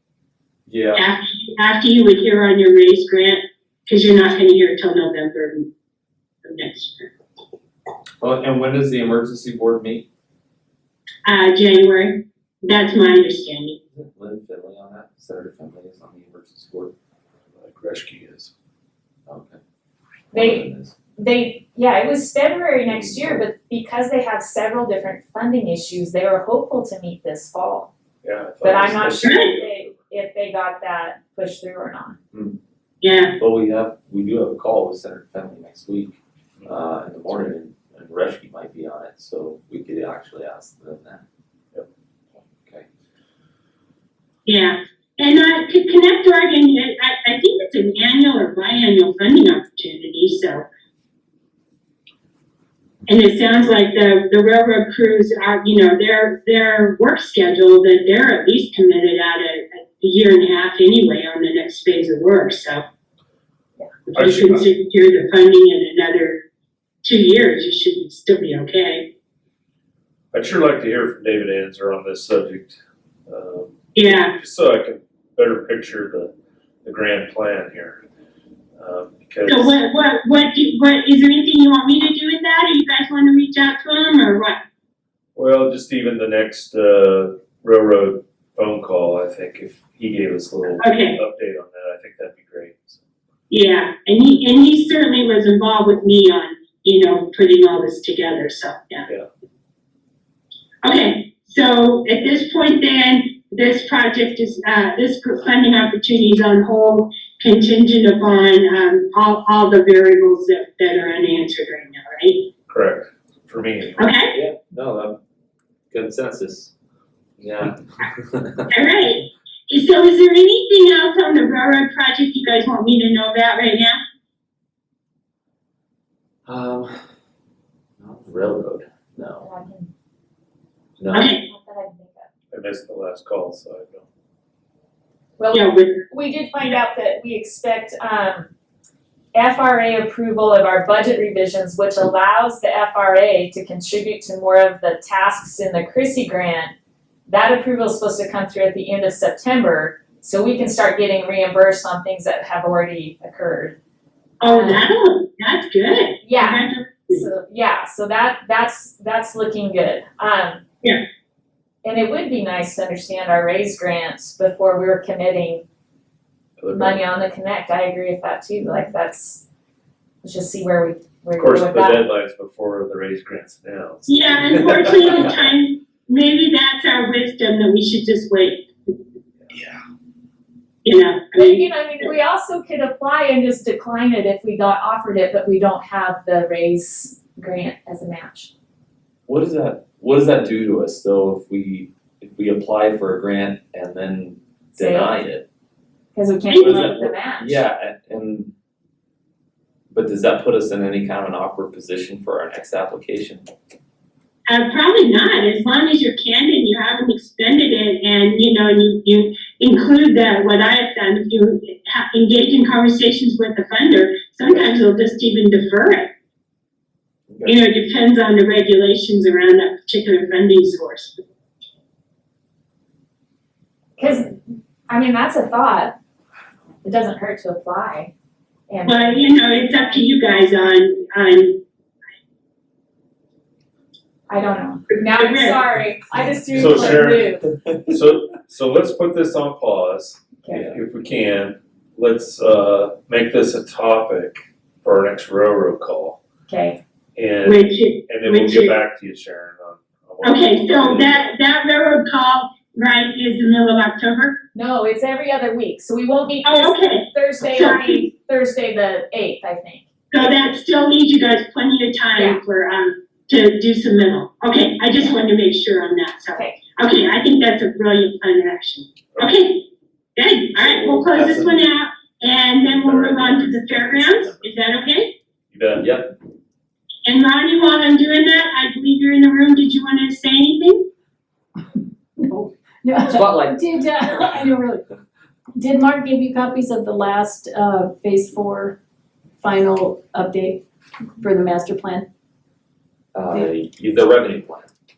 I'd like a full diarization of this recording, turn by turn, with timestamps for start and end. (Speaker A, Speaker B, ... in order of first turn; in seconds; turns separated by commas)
Speaker A: 0.7-1.1, Speaker B: 0.9-5.7, Speaker B: 6.4-7.1, Speaker A: 8.2-10.1, Speaker B: 11.2-13.8, Speaker A: 13.9-16.9, Speaker C: 17.6-18.5, Speaker A: 19.3-19.6, Speaker A: 20.3-20.9, Speaker D: 20.3-27.9, Speaker C: 22.9-23.3, Speaker C: 28.2-29.9, Speaker D: 28.6-32.2, Speaker B: 29.2-29.5, Speaker A: 32.3-32.6, Speaker B: 33.0-33.3, Speaker A: 33.4-41.2, Speaker B: 44.4-50.6, Speaker B: 53.1-62.8, Speaker B: 64.1-66.4, Speaker C: 64.1-64.7, Speaker B: 67.0-69.1, Speaker C: 70.3-76.3, Speaker B: 73.9-74.3, Speaker C: 76.8-78.0, Speaker C: 78.8-79.8, Speaker B: 79.5-84.6, Speaker C: 85.3-93.0, Speaker B: 90.8-91.2, Speaker B: 93.5-99.1, Speaker B: 100.8-112.5, Speaker C: 112.7-114.1, Speaker B: 114.0-114.3, Speaker A: 114.3-115.2, Speaker A: 115.9-116.7, Speaker A: 117.4-118.7, Speaker B: 118.7-124.0, Speaker A: 126.5-127.0, Speaker A: 128.0-129.5, Speaker D: 129.4-129.9, Speaker A: 131.0-131.3, Speaker B: 131.1-131.4, Speaker D: 131.4-132.3, Speaker C: 132.5-134.1, Speaker D: 135.4-138.5, Speaker B: 135.5-136.1, Speaker D: 139.3-146.7, Speaker D: 147.3-153.8, Speaker B: 154.4-157.2, Speaker D: 154.4-154.8, Speaker D: 156.2-160.6, Speaker D: 161.8-165.6, Speaker C: 166.6-167.0, Speaker D: 166.7-169.4, Speaker D: 170.2-172.1, Speaker C: 171.4-175.4, Speaker B: 174.1-178.7, Speaker A: 179.5-179.8, Speaker B: 180.8-181.6, Speaker D: 181.3-188.5, Speaker A: 189.3-195.4, Speaker D: 194.7-195.2, Speaker D: 196.1-197.6, Speaker B: 196.5-196.9, Speaker A: 196.6-198.5, Speaker A: 199.9-203.5, Speaker B: 204.5-216.1, Speaker A: 217.3-217.6, Speaker B: 217.4-221.2, Speaker D: 224.0-225.9, Speaker D: 226.8-228.1, Speaker D: 228.7-230.7, Speaker B: 228.8-231.6, Speaker D: 234.3-237.4, Speaker B: 235.0-235.6, Speaker C: 236.5-237.3, Speaker A: 236.6-237.0, Speaker C: 237.9-246.2, Speaker D: 240.4-240.7, Speaker A: 240.5-240.8, Speaker D: 246.5-246.8, Speaker C: 247.2-251.2, Speaker B: 247.4-248.7, Speaker B: 250.2-254.4, Speaker D: 254.5-259.9, Speaker B: 256.4-258.1, Speaker B: 260.1-269.6, Speaker B: 270.1-275.1, Speaker C: 270.6-271.7, Speaker C: 272.6-274.5, Speaker C: 275.5-276.0, Speaker A: 275.8-276.1, Speaker B: 277.1-280.9, Speaker E: 282.2-284.9, Speaker A: 283.1-283.6, Speaker E: 285.5-288.8, Speaker E: 289.4-290.6, Speaker E: 291.2-292.1, Speaker A: 293.1-294.7